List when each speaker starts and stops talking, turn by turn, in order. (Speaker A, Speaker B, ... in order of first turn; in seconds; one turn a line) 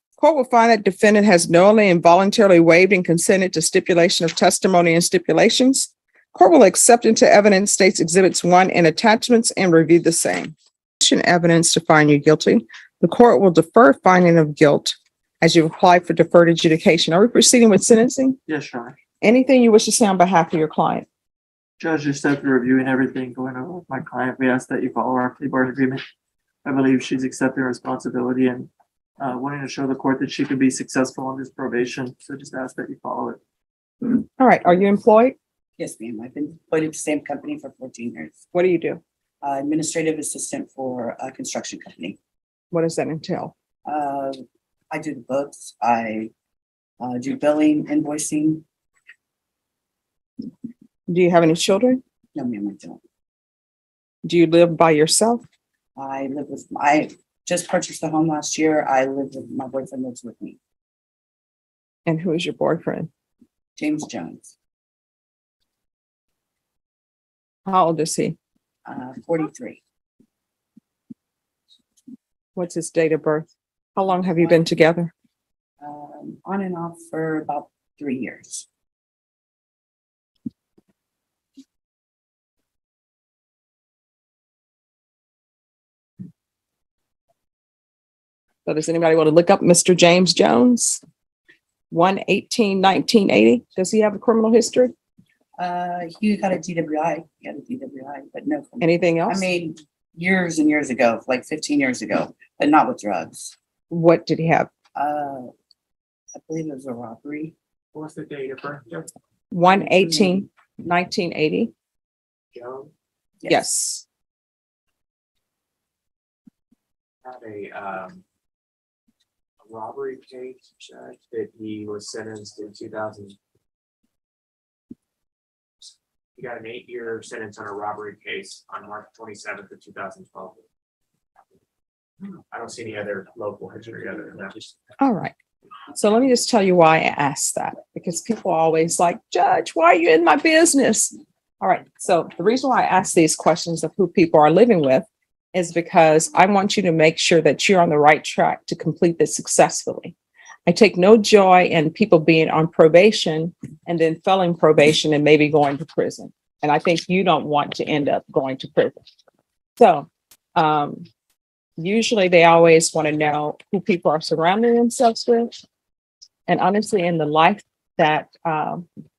Speaker A: 0.2-18.4
Speaker B: 18.5-18.9
Speaker A: 19.2-21.1
Speaker B: 21.8-26.0
Speaker B: 26.6-33.4
Speaker A: 34.0-35.4
Speaker C: 35.8-38.5
Speaker A: 38.5-39.0
Speaker C: 39.4-42.2
Speaker A: 42.7-43.5
Speaker C: 43.8-44.4
Speaker C: 44.9-46.3
Speaker C: 47.0-48.6
Speaker A: 51.1-52.0
Speaker C: 52.3-53.0
Speaker A: 54.2-55.4
Speaker C: 56.0-60.6
Speaker A: 62.0-63.1
Speaker C: 63.8-64.5
Speaker A: 67.7-68.4
Speaker C: 68.9-69.8
Speaker A: 72.5-75.1
Speaker C: 74.2-74.7
Speaker C: 75.8-78.7
Speaker A: 88.6-91.0
Speaker A: 91.9-94.9
Speaker C: 95.6-103.5
Speaker A: 98.8-99.5
Speaker A: 103.9-104.7
Speaker C: 105.0-105.5
Speaker C: 106.3-107.5
Speaker D: 107.9-109.1
Speaker A: 109.5-111.7
Speaker D: 112.5-112.9
Speaker C: 113.4-113.7
Speaker A: 113.5-114.0
Speaker D: 117.2-118.2
Speaker D: 119.6-123.4
Speaker D: 126.4-130.6
Speaker D: 132.5-134.7
Speaker A: 135.0-135.3
Speaker A: 135.9-150.1
Speaker A: 150.7-159.0
Speaker A: 159.8-161.1
Speaker A: 161.8-165.5
Speaker A: 166.5-168.9